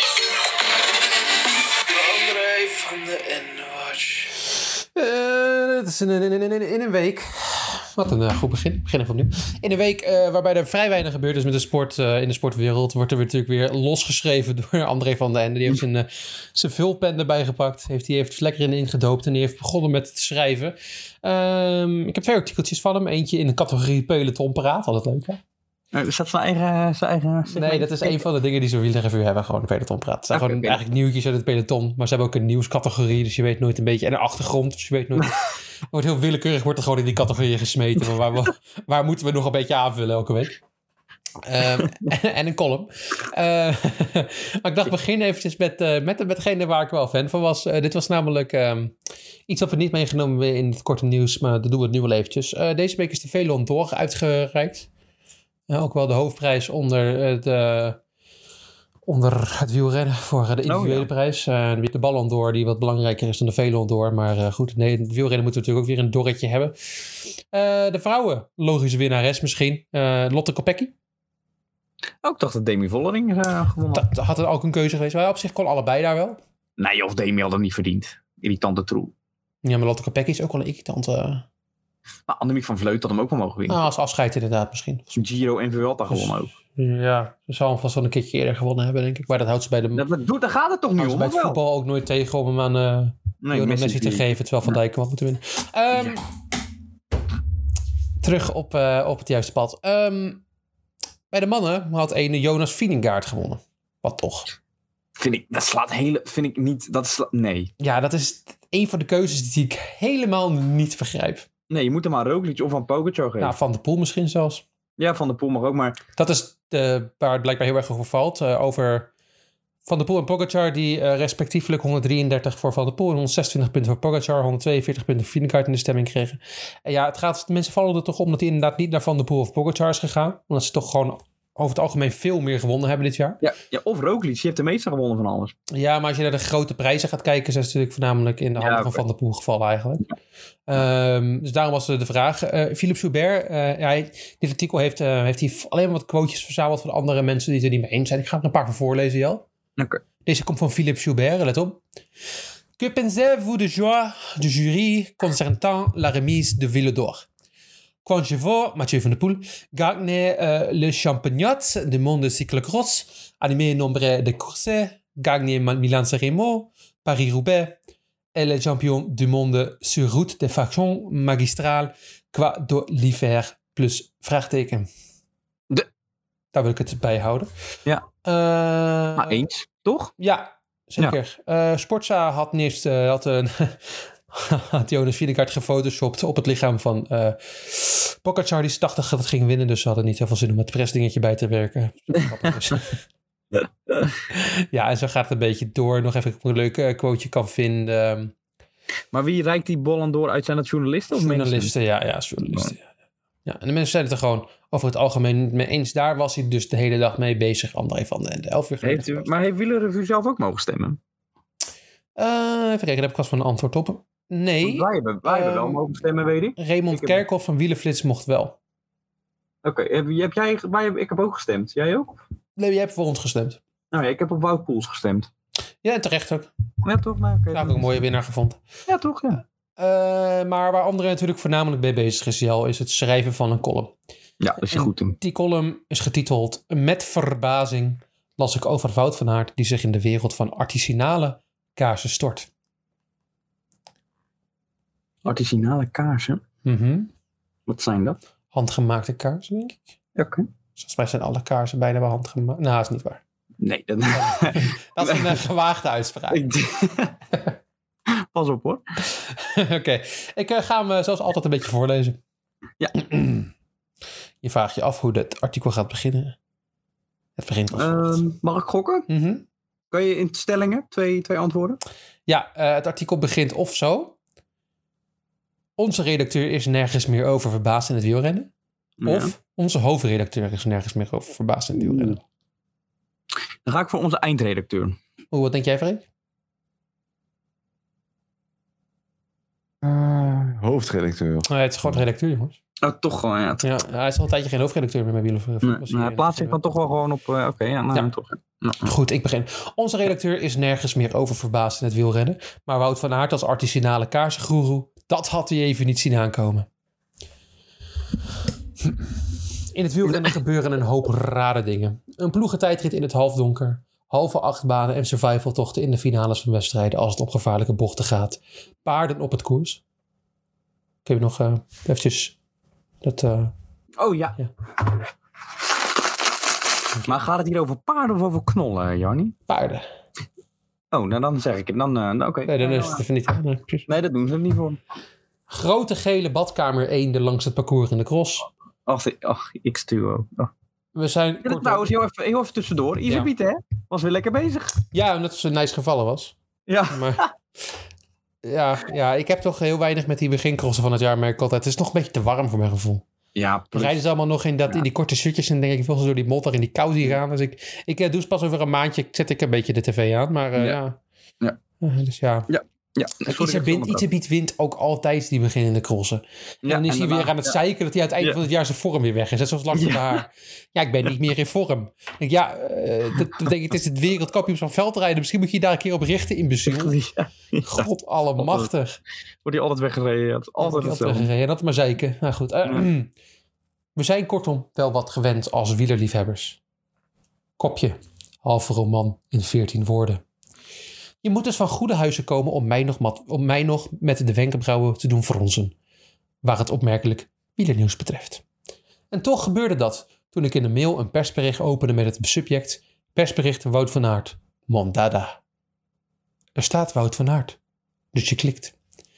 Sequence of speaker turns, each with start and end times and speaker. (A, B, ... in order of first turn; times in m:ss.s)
0:01.9-0:25.4 A
0:25.9-0:28.2 B
0:27.5-0:40.6 A
0:30.3-0:30.8 B
0:41.4-0:48.9 A
0:49.5-0:54.9 A
0:55.7-0:58.0 A
0:59.0-1:06.7 A
1:00.7-1:01.1 B
1:07.5-1:10.9 A
1:12.2-1:14.1 B
1:13.9-1:16.4 A
1:16.8-1:19.1 B
1:19.6-1:21.4 A
1:22.3-1:23.8 B
1:23.7-1:25.1 A
1:25.1-1:26.5 B
1:26.1-1:30.0 A
1:29.9-1:31.6 B
1:31.0-1:36.2 A
1:33.4-1:34.8 B
1:38.2-1:40.4 A
1:41.3-1:44.5 A
1:45.2-1:47.7 B
1:47.8-1:51.4 A
1:51.7-1:53.6 B
1:53.4-1:54.6 A
1:55.0-1:56.0 B
1:56.2-1:59.1 A
1:59.8-2:13.4 A
2:13.4-2:15.5 B
2:15.7-2:20.1 A
2:18.6-2:19.0 B
2:20.7-2:29.4 A
2:30.2-2:31.8 A
2:32.8-2:37.2 A
2:38.0-2:47.8 A
2:48.3-2:54.9 A
2:56.5-2:57.5 A
2:58.2-2:59.4 A
2:59.2-3:00.1 B
3:00.2-3:13.0 A
3:14.3-3:18.3 A
3:19.1-3:21.7 B
3:21.1-3:22.8 A
3:23.4-3:29.3 A
3:28.8-3:31.0 B
3:32.2-3:35.8 A
3:34.6-3:37.2 B
3:36.6-3:38.6 A
3:39.6-3:42.2 B
3:42.6-3:43.6 A
3:43.9-3:45.3 B
3:45.8-3:46.5 A
3:46.8-3:47.9 B
3:47.5-3:48.6 A
3:48.9-3:49.4 B
3:49.8-3:53.9 A
3:54.4-3:55.2 B
3:54.7-4:02.5 A
4:05.2-4:06.4 B
4:06.6-4:07.1 A
4:07.7-4:08.2 B
4:08.5-4:09.8 A
4:10.2-4:10.4 B
4:10.8-4:13.2 A
4:13.6-4:15.4 B
4:14.1-4:16.4 A
4:16.3-4:17.2 B
4:18.1-4:18.8 B
4:19.1-4:22.2 A
4:23.0-4:23.5 A
4:24.4-4:26.4 A
4:27.4-4:28.2 A
4:27.7-4:29.1 B
4:29.1-4:29.4 A
4:29.9-4:31.8 B
4:32.3-4:34.1 A
4:35.8-4:38.5 A
4:39.0-4:39.3 B
4:39.0-4:42.2 A
4:41.8-4:42.2 B
4:43.6-4:45.0 B
4:45.3-4:46.0 A
4:49.8-4:52.0 C
4:51.5-4:52.6 A
4:52.8-4:53.6 B
4:53.6-4:56.6 A
4:55.6-4:58.9 B
4:58.8-5:06.7 A
5:09.7-5:19.8 A
5:21.0-5:22.4 A
5:23.0-5:23.5 A
5:24.0-5:24.4 B
5:27.0-5:29.4 B
5:29.5-5:29.8 A
5:30.9-5:33.0 B
5:32.5-5:33.9 A
5:33.9-5:34.8 B
5:35.5-5:38.5 A
5:38.9-5:40.5 B
5:41.0-5:41.9 A
5:41.4-5:44.8 B
5:44.9-5:46.3 A
5:46.7-5:47.3 B
5:46.9-5:47.2 A
5:48.4-5:53.0 A
5:53.3-5:54.0 B
5:53.7-6:01.0 A
6:01.8-6:02.5 A
6:02.5-6:04.0 B
6:03.2-6:16.9 A
6:06.6-6:07.6 B
6:09.7-6:10.2 B
6:16.6-6:17.9 B
6:17.6-6:19.0 A
6:18.4-6:18.7 B
6:19.4-6:21.3 B
6:20.6-6:23.1 A
6:24.0-6:26.6 A
6:27.6-6:30.2 A
6:31.2-6:35.7 A
6:36.4-6:38.4 A
6:39.1-6:45.4 A
6:46.6-6:47.6 A
6:48.1-6:48.7 A